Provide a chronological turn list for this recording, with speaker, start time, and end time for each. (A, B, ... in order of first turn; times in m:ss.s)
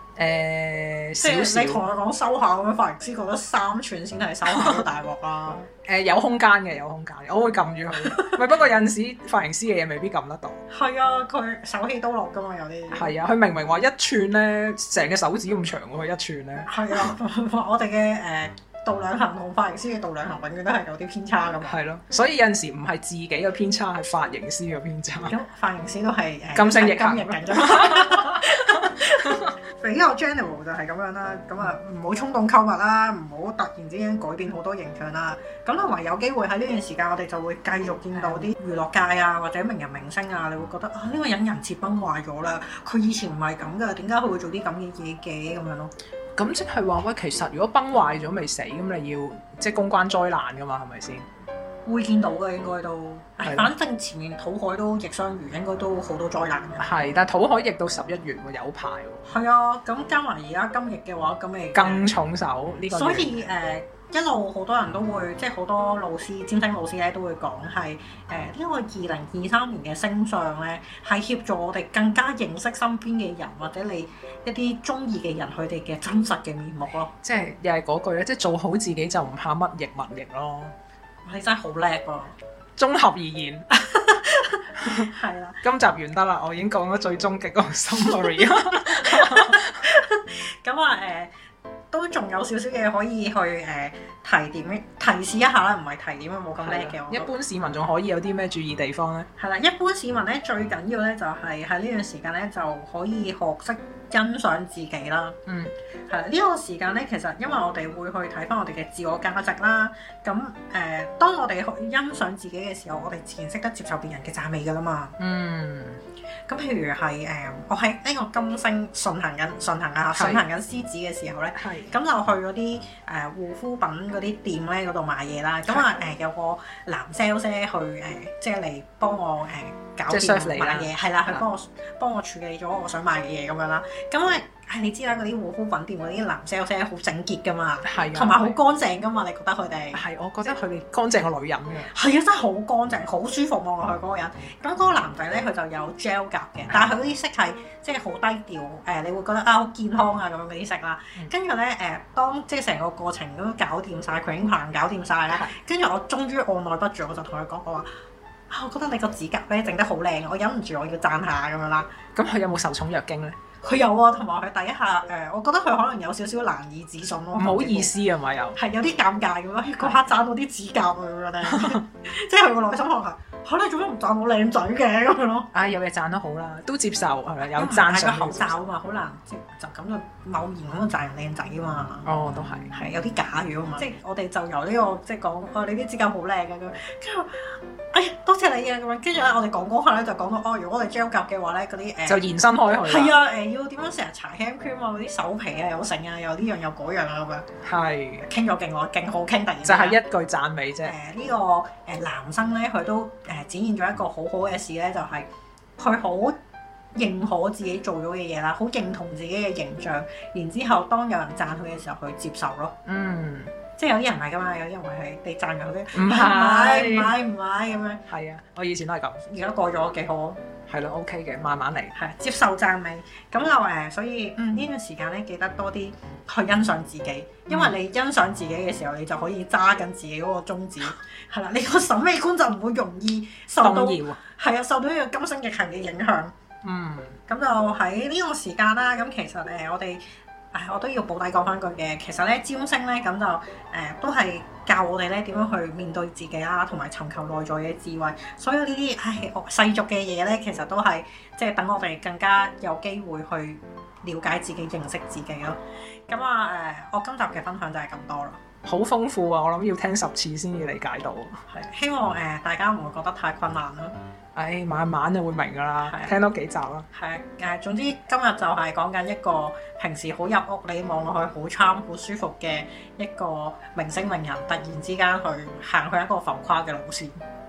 0:00.2-0:01.8 A
0:01.2-0:05.7 B
0:04.5-0:04.8 A
0:05.7-0:10.6 A
0:08.0-0:08.4 B
0:10.7-0:13.1 B
0:12.9-0:17.1 A
0:16.7-0:21.8 B
0:21.6-0:25.3 A
0:25.3-0:45.9 B
0:26.5-0:29.5 A
0:38.2-0:38.5 A
0:46.4-0:51.2 A
0:51.8-0:56.9 B
0:53.4-0:53.7 A
0:56.8-0:59.2 A
0:59.3-1:02.1 B
1:01.7-1:03.4 A
1:02.9-1:17.1 B
1:17.2-1:20.7 A
1:21.2-1:22.3 B
1:22.8-1:23.7 A
1:23.7-1:25.6 B
1:24.8-1:25.1 A
1:25.6-1:29.8 A
1:28.6-1:31.3 B
1:31.9-1:37.3 B
1:36.6-1:39.3 A
1:39.4-1:45.4 B
1:45.4-1:45.7 A
1:46.1-1:55.2 B
1:55.2-1:56.0 A
1:56.5-2:20.0 B
2:00.2-2:00.4 A
2:01.6-2:01.9 A
2:10.1-2:11.4 A
2:17.8-2:18.6 A
2:19.9-2:21.9 A
2:21.9-2:37.9 B
2:38.5-2:41.9 B
2:42.1-2:43.4 A
2:43.6-2:47.9 B
2:47.4-2:48.6 A
2:48.5-2:55.5 B
2:51.5-2:51.8 A
2:55.5-2:58.6 A
2:57.5-3:02.1 B
3:02.0-3:02.7 A
3:02.7-3:17.5 B
3:12.1-3:13.1 A
3:17.6-3:18.3 A
3:18.2-3:20.0 B
3:19.6-3:20.9 A
3:20.8-3:26.4 B
3:26.9-3:32.8 B
3:32.8-3:33.5 A
3:33.8-3:38.0 B
3:35.9-3:37.2 A
3:38.1-3:39.2 A
3:39.2-3:40.4 B
3:40.7-3:41.9 A
3:41.9-3:56.3 B
3:47.5-3:47.7 A
3:53.6-3:54.2 A
3:56.6-3:57.2 A
3:57.3-4:18.4 B
4:18.6-4:21.4 A
4:21.5-4:24.0 B
4:24.3-4:26.9 A
4:25.8-4:26.1 B
4:26.9-4:37.2 B